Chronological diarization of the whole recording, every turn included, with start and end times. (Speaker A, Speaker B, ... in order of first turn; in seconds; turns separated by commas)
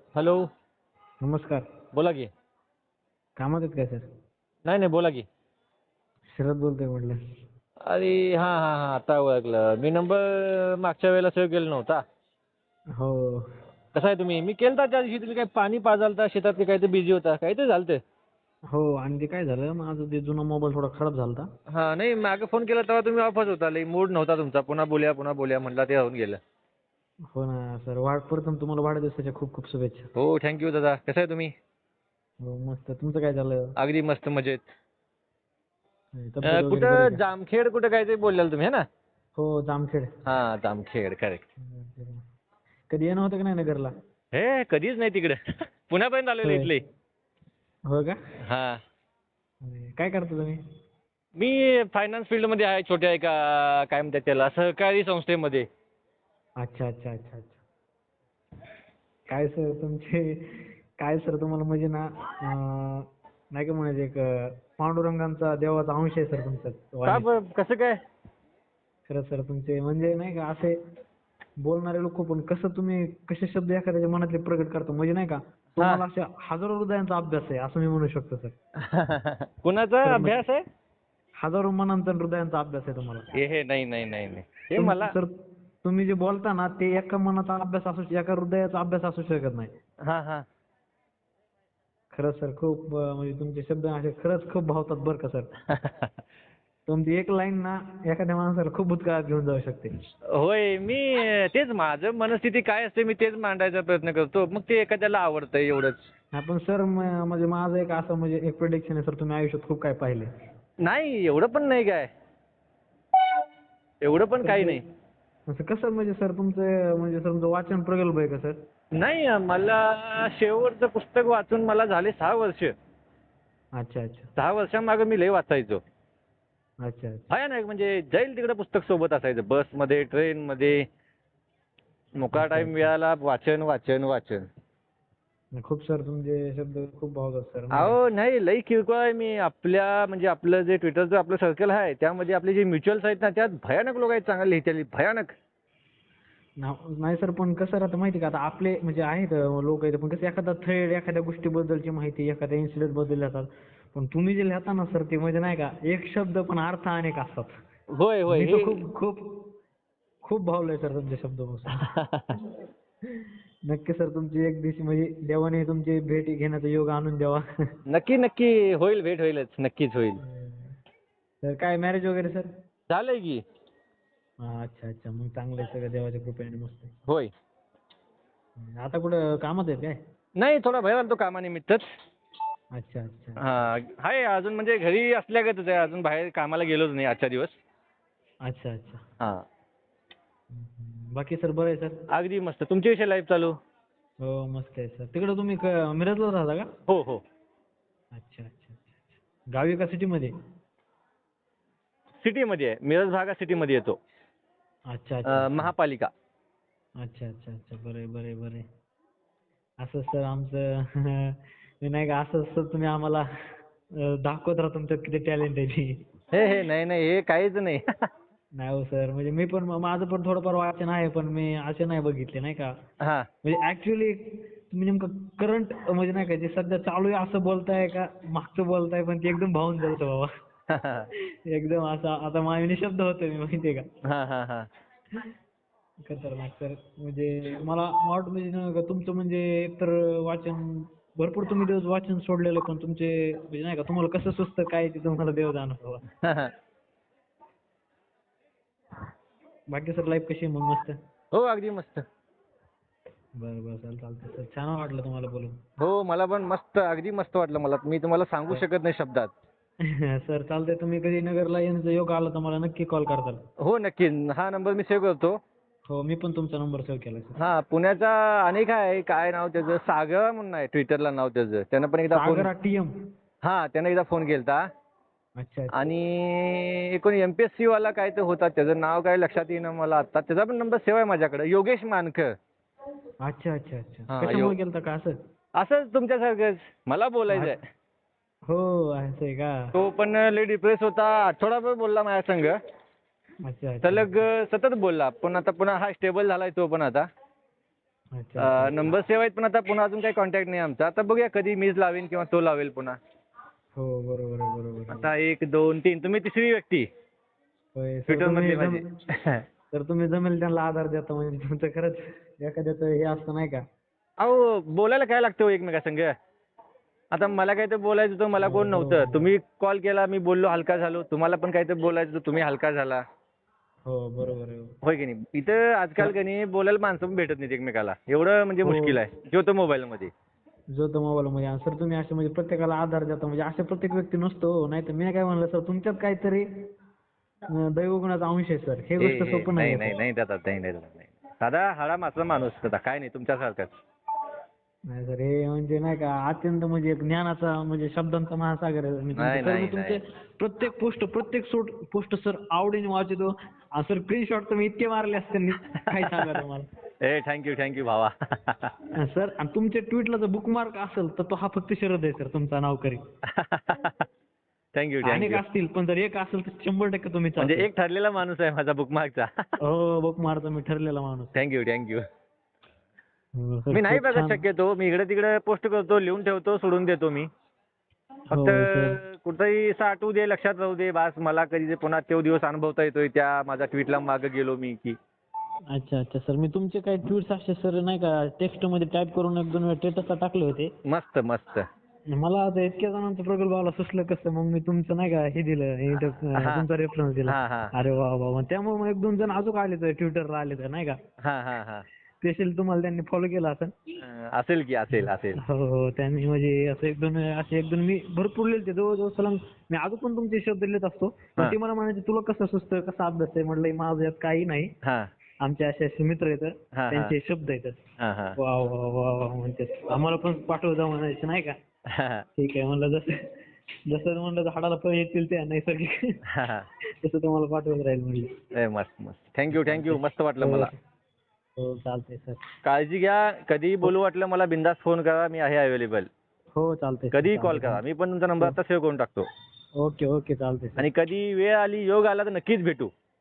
Speaker A: 0.2-0.4, Speaker B: 1.2-1.6, Speaker A: 1.9-2.3, Speaker B: 3.4-4.0, Speaker A: 4.7-5.3, Speaker B: 6.3-7.2, Speaker A: 7.9-12.0, Speaker B: 13.0-13.5, Speaker A: 13.9-18.0, Speaker B: 18.7-21.5, Speaker A: 21.7-26.4, Speaker B: 27.3-30.1, Speaker A: 30.2-31.5, Speaker B: 32.4-33.7, Speaker A: 33.8-34.6, Speaker B: 36.2-37.2, Speaker A: 36.4-38.8, Speaker B: 39.4-40.1, Speaker A: 40.2-41.4, Speaker B: 41.6-42.2, Speaker B: 42.9-43.9, Speaker A: 44.3-46.8, Speaker B: 46.4-46.7, Speaker B: 47.9-48.2, Speaker A: 48.4-48.8, Speaker B: 49.6-50.6, Speaker A: 51.4-55.7, Speaker B: 56.6-57.6, Speaker B: 59.3-67.3, Speaker A: 67.1-68.0, Speaker B: 69.1-70.8, Speaker B: 71.6-78.6, Speaker A: 75.8-76.0, Speaker A: 78.8-80.6, Speaker B: 80.0-80.4, Speaker B: 81.4-83.3, Speaker A: 83.3-85.2, Speaker B: 84.8-85.3, Speaker B: 85.8-89.7, Speaker A: 90.0-90.5, Speaker B: 92.1-95.5, Speaker A: 95.7-96.1, Speaker B: 96.9-99.9, Speaker A: 100.3-106.0, Speaker B: 106.3-110.3, Speaker A: 110.8-112.1, Speaker A: 114.0-114.8, Speaker B: 114.4-114.8, Speaker B: 115.5-118.6, Speaker A: 119.0-122.7, Speaker B: 123.8-124.3, Speaker A: 124.4-125.8, Speaker B: 126.8-127.3, Speaker A: 127.3-130.8, Speaker A: 132.2-134.5, Speaker B: 132.3-132.9, Speaker B: 135.6-138.0, Speaker A: 137.7-145.3, Speaker B: 146.6-157.6, Speaker A: 157.9-158.8, Speaker B: 158.3-159.5, Speaker B: 160.2-161.9, Speaker A: 161.8-162.4, Speaker B: 163.2-167.5, Speaker A: 167.9-170.2, Speaker B: 170.2-170.8, Speaker B: 171.4-172.5, Speaker A: 172.9-173.4, Speaker B: 174.4-176.9, Speaker B: 178.6-180.0, Speaker A: 180.4-181.9, Speaker B: 182.8-183.7, Speaker A: 183.4-187.6, Speaker B: 188.5-189.0, Speaker B: 190.5-192.0, Speaker A: 192.1-193.6, Speaker B: 194.2-196.7, Speaker A: 196.9-197.2, Speaker B: 198.2-200.3, Speaker A: 202.2-204.0, Speaker B: 204.9-205.7, Speaker A: 205.3-206.1, Speaker B: 207.0-208.7, Speaker B: 209.8-213.3, Speaker B: 214.0-216.1, Speaker A: 216.3-217.8, Speaker B: 218.6-222.7, Speaker A: 223.0-223.3, Speaker B: 223.4-230.3, Speaker A: 230.7-231.1, Speaker B: 231.5-233.8, Speaker A: 234.1-234.7, Speaker B: 236.1-246.0, Speaker A: 246.2-246.5, Speaker B: 249.7-251.0, Speaker A: 251.3-252.1, Speaker B: 253.4-255.6, Speaker A: 255.8-259.3, Speaker B: 259.9-263.4, Speaker A: 263.6-265.4, Speaker B: 265.9-267.4, Speaker A: 267.4-272.5, Speaker B: 272.1-272.9, Speaker A: 273.4-274.6, Speaker B: 275.4-275.8, Speaker A: 275.7-282.3, Speaker B: 283.2-285.2, Speaker A: 284.1-284.6, Speaker A: 285.6-287.6, Speaker B: 287.3-287.6, Speaker B: 288.5-289.7, Speaker A: 289.7-292.6, Speaker B: 293.5-294.3, Speaker A: 293.8-297.1, Speaker B: 298.2-299.0, Speaker A: 298.4-303.0, Speaker B: 303.8-305.1, Speaker A: 304.9-306.9, Speaker B: 307.8-308.9, Speaker A: 308.1-309.4, Speaker B: 309.7-313.6, Speaker A: 314.2-316.1, Speaker A: 317.1-323.0, Speaker B: 318.4-319.3, Speaker B: 323.9-324.8, Speaker A: 324.8-330.1, Speaker B: 328.6-329.0, Speaker B: 330.8-336.5, Speaker B: 337.6-340.0, Speaker A: 339.0-343.8, Speaker B: 344.9-356.7, Speaker A: 349.2-350.0, Speaker A: 355.9-356.4, Speaker A: 357.0-358.8, Speaker B: 359.0-363.0, Speaker A: 363.3-364.1, Speaker A: 364.8-365.4, Speaker B: 365.0-367.7, Speaker A: 367.4-369.3, Speaker B: 369.6-371.4, Speaker A: 371.4-372.0, Speaker B: 373.4-374.4, Speaker A: 373.7-377.3, Speaker B: 378.3-379.0, Speaker A: 378.3-385.0, Speaker B: 385.7-390.7, Speaker A: 390.9-391.6, Speaker B: 392.1-401.0, Speaker A: 395.9-396.7, Speaker A: 397.3-397.7, Speaker A: 401.2-401.9, Speaker B: 402.2-403.7, Speaker A: 404.0-405.4, Speaker B: 405.0-414.7, Speaker A: 414.8-415.1, Speaker B: 415.4-417.8, Speaker A: 416.8-417.1, Speaker A: 418.0-418.4, Speaker B: 418.4-421.6, Speaker A: 421.9-422.2, Speaker B: 422.4-423.2, Speaker B: 423.9-426.2, Speaker A: 426.3-426.7, Speaker B: 427.0-428.4, Speaker A: 428.5-430.7, Speaker B: 429.5-430.8, Speaker B: 431.6-432.5, Speaker A: 432.6-436.1, Speaker B: 436.6-437.8, Speaker A: 437.1-439.3, Speaker B: 439.8-440.9, Speaker A: 440.8-442.9